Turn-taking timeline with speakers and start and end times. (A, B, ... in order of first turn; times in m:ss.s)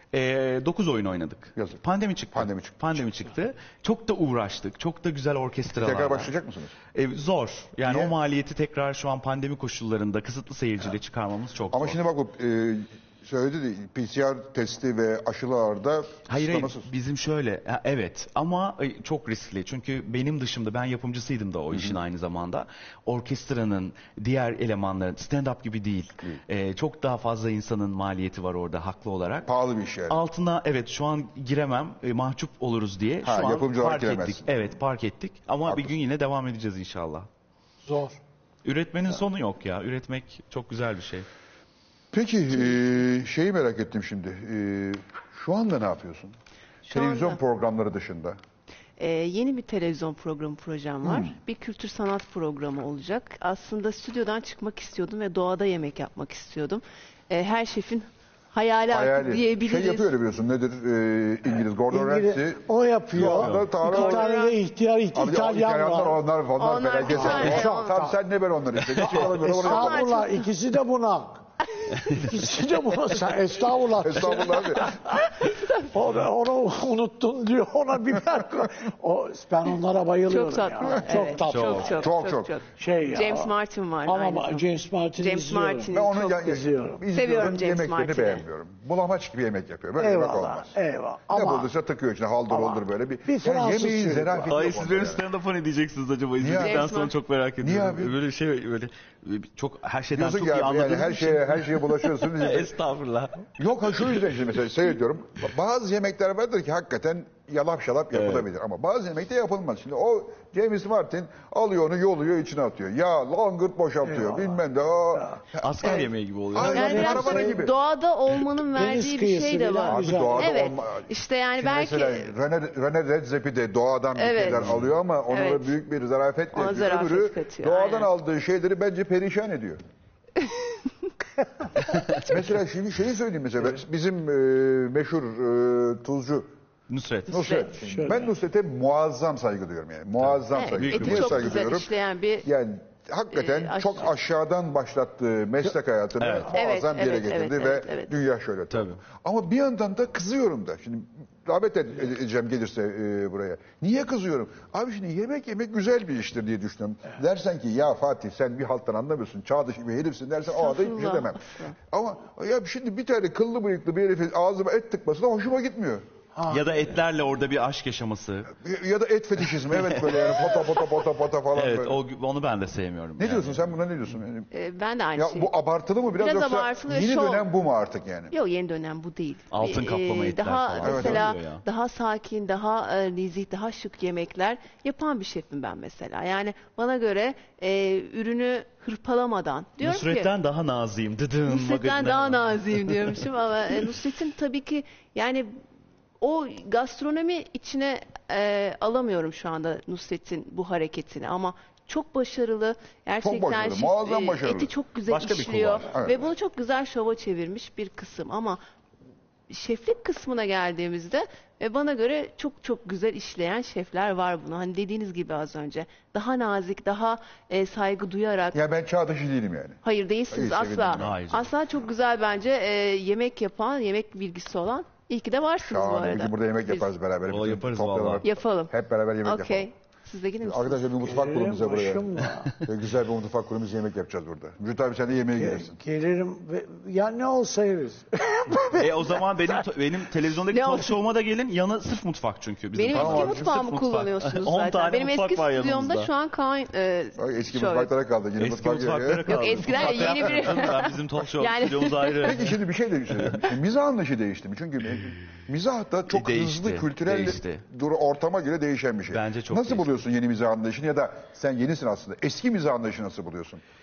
0:00.1-0:06.3 A
0:01.6-0:01.8 B
0:02.3-0:03.0 B
0:05.7-0:06.7 B
0:06.9-0:12.0 A
0:07.8-0:08.1 B
0:11.7-0:16.9 B
0:16.3-0:29.5 A
0:21.7-0:22.0 B
0:29.4-0:30.2 B
0:30.1-0:37.3 A
0:33.2-0:34.6 B
0:35.6-0:36.0 B
0:37.8-0:38.2 C
0:38.6-0:41.2 A
0:42.1-0:46.3 B
0:46.8-0:47.4 D
0:46.9-0:48.4 B
0:49.0-1:00.1 D
0:51.0-0:51.3 B
0:58.9-1:04.3 B
1:01.9-1:06.2 C
1:03.4-1:03.7 A
1:03.8-1:04.6 D
1:05.1-1:10.1 B
1:06.6-1:07.9 D
1:07.1-1:08.2 C
1:09.0-1:15.2 C
1:09.6-1:10.4 D
1:13.9-1:14.9 B
1:15.5-1:15.8 D
1:15.9-1:22.0 C
1:20.3-1:24.6 D
1:21.4-1:21.9 A
1:21.9-1:22.5 B
1:22.8-1:23.5 C
1:24.0-1:27.0 C
1:25.2-1:26.3 D
1:25.9-1:30.7 B
1:27.1-1:28.4 D
1:30.0-1:31.7 C
1:31.3-1:35.2 B
1:32.5-1:34.6 C
1:34.4-1:43.4 A
1:36.4-1:36.9 B
1:36.6-1:37.2 D
1:37.6-1:38.1 B
1:40.1-1:42.7 B
1:43.6-1:57.7 B
1:48.1-1:48.5 A
1:54.0-1:54.6 C
1:55.1-1:55.4 C
1:55.6-1:57.2 A
1:56.6-2:02.3 D
1:56.6-1:57.5 C
1:58.7-2:00.8 C
1:59.9-2:09.8 B
2:04.1-2:04.7 D
2:04.5-2:04.9 A
2:05.3-2:05.7 D
2:06.5-2:08.1 D
2:12.1-2:16.5 B
2:16.9-2:17.5 A
2:17.3-2:21.9 B
2:17.3-2:17.7 D
2:17.8-2:18.3 C
2:20.2-2:21.6 A
2:20.5-2:22.4 D
2:22.4-2:46.0 B
2:23.3-2:24.1 D
2:26.2-2:26.5 A
2:26.5-2:28.1 D
2:28.7-2:29.0 A
2:40.5-2:41.7 D
2:46.3-2:46.9 C
2:46.5-2:48.5 A
2:48.5-2:52.0 B
2:49.4-2:53.8 A
2:53.2-2:54.5 B
2:54.5-2:55.5 D
2:55.1-2:58.3 B
2:56.1-2:57.5 D
2:58.3-3:10.3 D
2:59.5-3:01.6 A
3:00.8-3:01.3 B
3:09.8-3:13.2 A
3:11.5-3:15.5 D
3:16.2-3:28.6 D
3:23.2-3:24.7 B
3:25.1-3:25.9 A
3:25.9-3:26.2 B
3:29.5-3:38.6 D
3:38.5-3:41.1 B
3:39.8-3:46.9 D
3:40.9-3:41.5 A
3:45.6-3:49.7 B
3:47.3-3:48.3 A
3:48.2-3:51.0 D
3:50.4-3:55.8 B
3:51.0-3:52.5 C
3:55.4-3:59.2 C
3:58.7-4:06.1 A
4:00.5-4:00.9 D
4:02.7-4:07.9 D
4:02.9-4:03.5 B
4:07.2-4:10.6 B
4:08.4-4:12.6 A
4:09.2-4:12.5 D
4:12.2-4:23.6 B
4:13.1-4:13.5 A
4:16.1-4:17.6 A
4:19.1-4:19.9 A